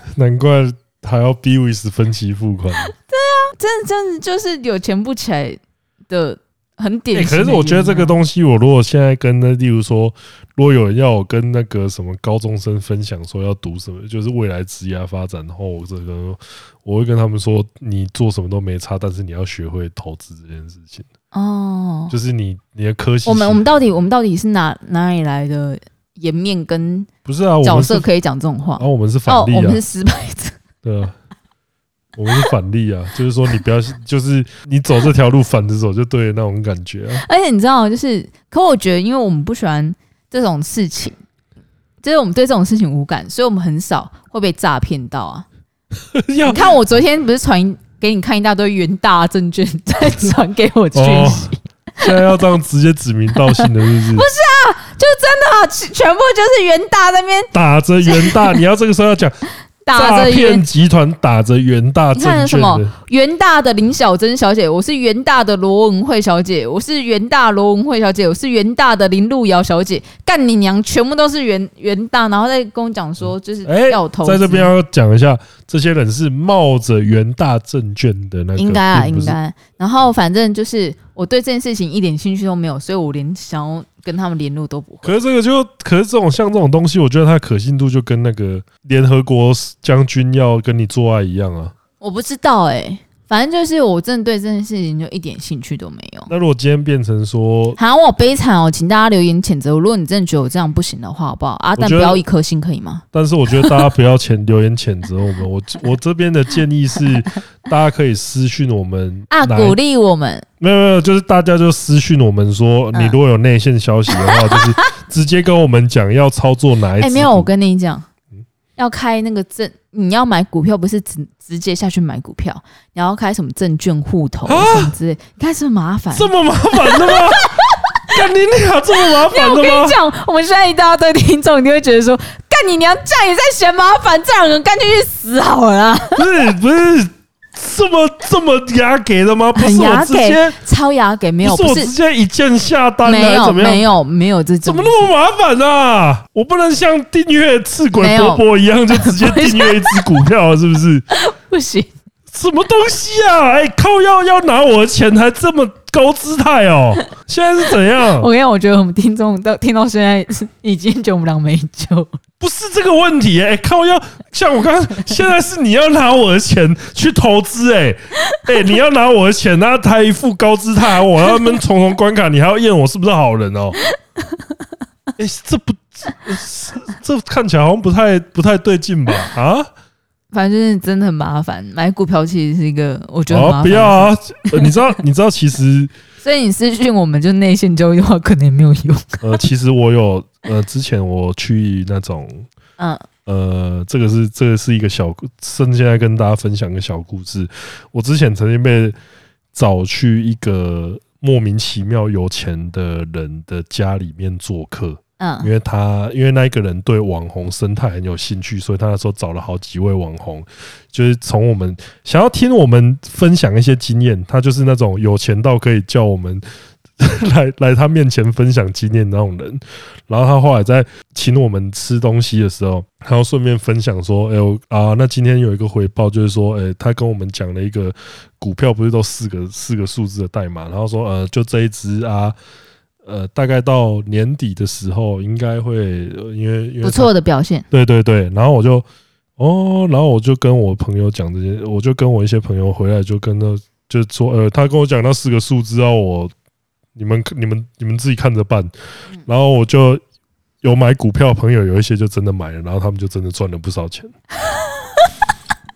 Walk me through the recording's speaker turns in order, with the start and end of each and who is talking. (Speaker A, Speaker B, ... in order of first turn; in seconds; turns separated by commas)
Speaker A: 0.1-2.9, Speaker B: 2.9-8.2, Speaker A: 7.1-21.1, Speaker B: 21.3-22.1, Speaker A: 22.1-23.6, Speaker B: 23.3-27.1, Speaker A: 27.3-28.1, Speaker B: 27.6-30.6, Speaker A: 28.8-29.8, Speaker A: 30.8-31.1, Speaker A: 32.2-37.2, Speaker B: 37.1-41.2, Speaker B: 42.0-45.5, Speaker A: 46.1-46.7, Speaker B: 46.5-52.1, Speaker A: 51.0-54.3, Speaker B: 53.6-57.5, Speaker A: 57.5-59.4, Speaker B: 58.0-58.6, Speaker B: 59.9-60.6, Speaker A: 59.9-62.9, Speaker B: 62.1-74.7, Speaker A: 73.7-79.4, Speaker B: 78.6-85.1, Speaker A: 85.0-91.7, Speaker B: 92.0-96.3, Speaker A: 96.3-97.8, Speaker B: 97.8-103.8, Speaker A: 101.8-102.2, Speaker A: 103.1-109.8, Speaker B: 109.3-110.5, Speaker A: 110.6-117.5, Speaker B: 114.1-114.6, Speaker B: 117.0-118.1, Speaker B: 118.8-128.1, Speaker A: 124.5-124.9, Speaker A: 126.1-127.5, Speaker A: 128.1-130.0, Speaker B: 129.0-136.3, Speaker A: 136.2-140.6, Speaker B: 139.6-141.9, Speaker A: 141.4-143.9, Speaker B: 143.0-145.1, Speaker A: 144.7-151.1, Speaker B: 147.9-150.2, Speaker B: 151.1-151.9, Speaker A: 152.3-158.3, Speaker B: 157.9-162.2, Speaker A: 162.4-173.8, Speaker A: 175.2-179.7, Speaker B: 180.3-184.7, Speaker A: 183.3-185.9, Speaker B: 186.2-189.4, Speaker A: 189.2-192.5, Speaker B: 192.8-193.1, Speaker A: 193.3-199.0, Speaker A: 199.5-216.4, Speaker B: 205.2-205.5, Speaker A: 217.0-232.4, Speaker A: 233.1-237.1, Speaker B: 236.8-237.7, Speaker A: 237.7-238.9, Speaker A: 239.4-246.3, Speaker A: 246.9-248.7, Speaker A: 249.2-250.0, Speaker A: 250.6-254.1, Speaker B: 254.5-255.0